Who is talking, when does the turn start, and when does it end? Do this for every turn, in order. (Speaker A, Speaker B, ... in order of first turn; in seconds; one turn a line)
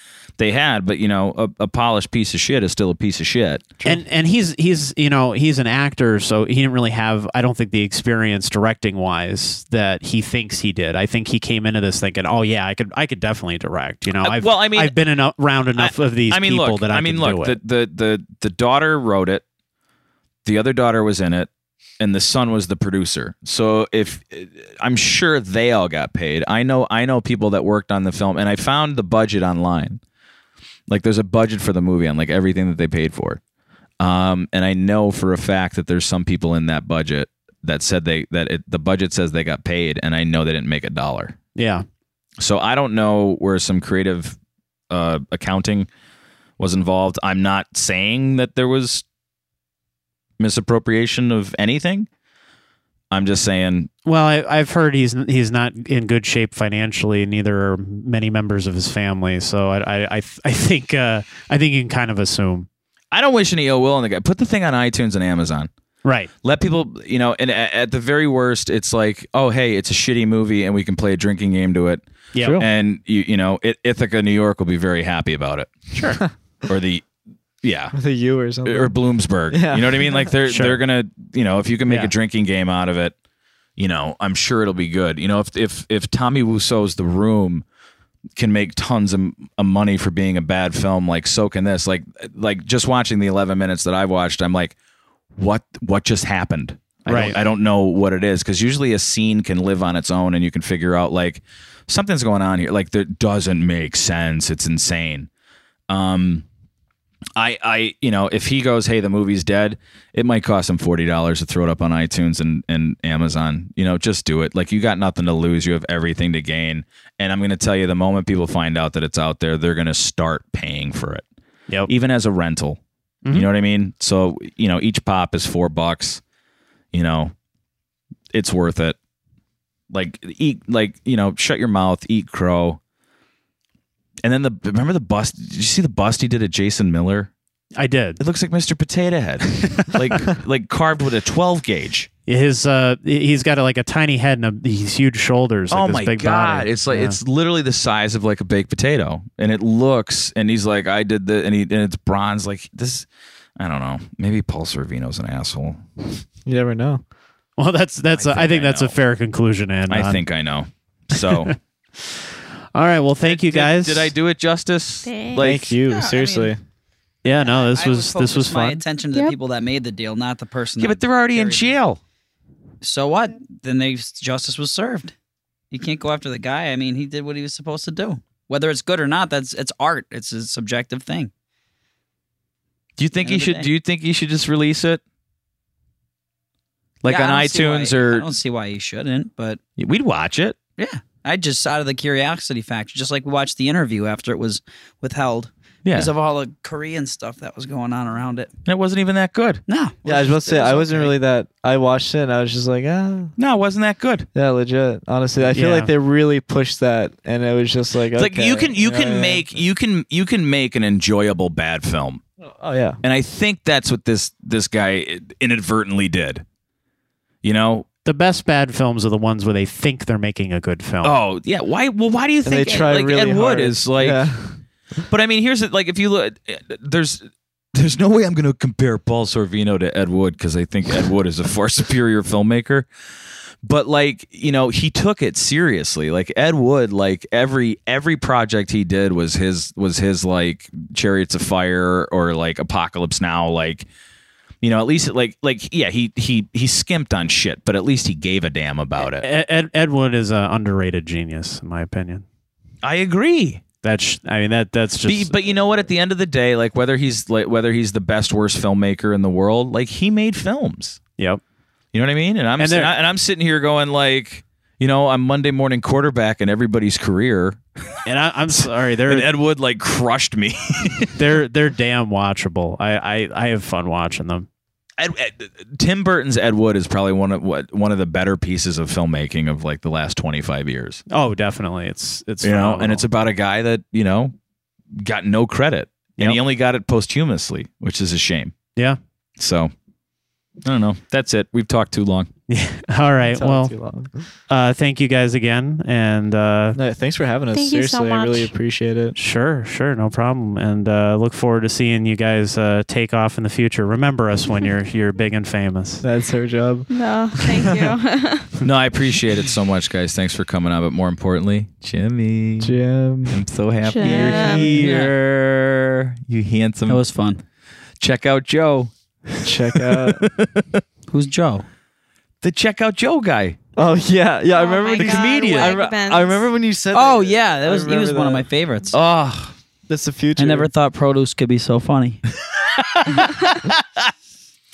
Speaker A: 0.4-3.8
Speaker B: 3.8-17.6
Speaker A: 14.2-14.9
Speaker A: 15.7-19.4
Speaker A: 20.4-30.0
Speaker A: 30.9-33.4
Speaker A: 34.0-41.4
Speaker B: 41.5-41.8
Speaker A: 42.4-44.4
Speaker A: 44.9-45.9
Speaker A: 46.6-49.0
Speaker A: 50.4-52.1
Speaker A: 53.1-53.9
Speaker B: 54.0-62.7
Speaker A: 63.1-65.7
Speaker B: 66.0-66.3
Speaker A: 66.4-75.9
Speaker B: 72.3-72.6
Speaker B: 75.9-76.2
Speaker A: 76.7-77.1
Speaker A: 77.6-77.9
Speaker C: 77.9-78.9
Speaker A: 78.6-83.1
Speaker C: 79.5-80.1
Speaker B: 80.4-80.8
Speaker B: 81.9-82.1
Speaker A: 83.8-87.6
Speaker A: 88.3-94.8
Speaker A: 95.3-105.3
Speaker B: 97.0-97.4
Speaker A: 105.9-106.5
Speaker A: 107.3-121.2
Speaker A: 121.9-126.2
Speaker A: 126.9-127.3
Speaker A: 128.3-128.9
Speaker A: 129.9-132.8
Speaker A: 134.2-137.3
Speaker B: 137.8-138.2
Speaker A: 138.2-142.1
Speaker B: 142.3-147.2
Speaker A: 145.7-153.1
Speaker A: 153.6-155.8
Speaker C: 156.4-157.0
Speaker B: 157.6-160.2
Speaker A: 158.1-159.0
Speaker A: 159.9-161.6
Speaker B: 161.2-161.5
Speaker B: 162.7-164.1
Speaker A: 163.2-165.7
Speaker D: 165.1-165.4
Speaker C: 165.4-166.6
Speaker E: 165.8-166.5
Speaker B: 167.2-168.8
Speaker E: 167.3-171.7
Speaker A: 170.8-172.0
Speaker E: 172.8-175.1
Speaker E: 175.7-181.3
Speaker A: 183.0-185.0
Speaker E: 183.2-183.7
Speaker A: 187.0-188.2
Speaker E: 187.1-189.6
Speaker A: 189.8-190.6
Speaker E: 190.8-198.5
Speaker A: 195.8-196.1
Speaker A: 198.7-199.6
Speaker E: 199.7-201.2
Speaker C: 200.0-203.3
Speaker A: 203.4-204.3
Speaker C: 204.3-209.5
Speaker B: 205.4-205.9
Speaker A: 208.1-212.2
Speaker C: 212.4-213.0
Speaker A: 213.0-216.4
Speaker A: 217.4-217.9
Speaker B: 218.0-221.1
Speaker A: 221.0-224.3
Speaker C: 222.4-224.6
Speaker A: 225.1-232.9
Speaker A: 233.6-243.9
Speaker A: 244.6-249.3
Speaker B: 249.1-252.2
Speaker A: 252.8-253.6
Speaker B: 253.8-255.3
Speaker A: 255.0-261.0
Speaker A: 261.9-268.0
Speaker B: 262.6-262.9
Speaker B: 268.0-269.2
Speaker A: 268.5-271.2
Speaker B: 271.1-274.5
Speaker A: 275.0-281.0
Speaker B: 281.1-283.0
Speaker A: 282.4-284.3
Speaker A: 284.9-288.5
Speaker A: 289.4-289.7
Speaker A: 290.6-292.3
Speaker B: 292.5-293.7
Speaker C: 293.3-294.1
Speaker B: 294.5-296.8
Speaker C: 296.7-299.1
Speaker D: 297.5-298.5
Speaker B: 299.1-306.0
Speaker C: 306.0-306.9
Speaker D: 306.9-308.5
Speaker A: 308.6-317.0
Speaker C: 312.6-313.4
Speaker D: 313.8-314.8
Speaker C: 314.0-314.9
Speaker E: 314.8-315.1
Speaker E: 316.9-317.4
Speaker A: 318.0-320.8
Speaker C: 319.4-320.2
Speaker E: 321.1-321.6
Speaker A: 322.4-323.6
Speaker C: 323.8-328.4
Speaker D: 324.5-326.4
Speaker A: 325.0-325.8
Speaker E: 326.9-328.9
Speaker A: 328.9-329.5
Speaker C: 329.9-330.7
Speaker E: 330.4-332.2
Speaker A: 332.5-334.1